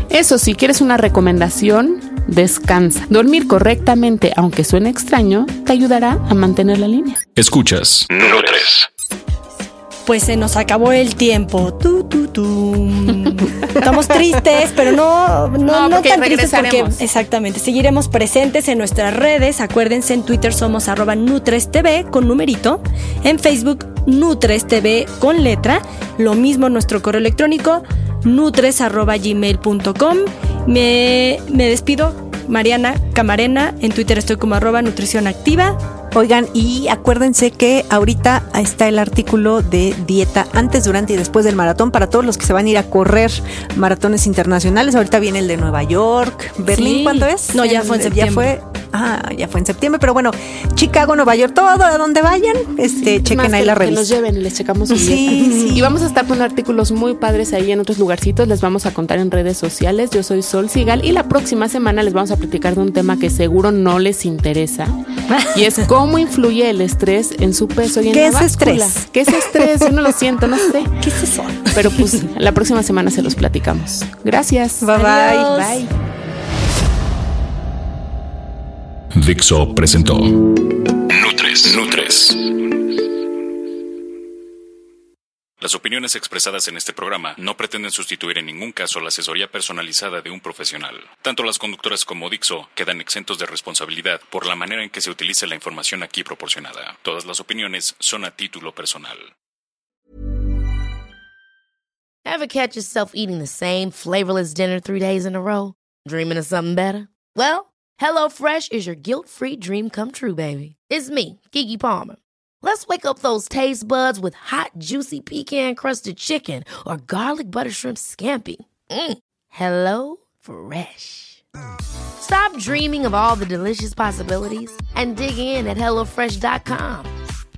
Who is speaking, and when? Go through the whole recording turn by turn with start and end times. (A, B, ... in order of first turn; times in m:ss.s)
0:00.1-0:07.2 A
0:07.4-0:08.9 B
0:10.1-0:35.8 C
0:15.6-0:17.0 A
0:36.1-0:54.1 D
0:46.7-0:48.5 C
0:53.1-1:04.9 A
0:54.9-0:55.9 D
0:55.4-0:55.7 C
1:05.3-1:05.8 C
1:05.5-1:10.9 A
1:08.1-1:09.9 D
1:11.0-1:12.1 C
1:11.7-1:14.9 A
1:14.8-1:15.6 D
1:14.9-1:15.9 C
1:15.4-1:15.8 A
1:19.1-1:22.9 B
1:25.6-1:39.3 B
1:42.2-2:01.4 E
2:02.2-2:07.1 E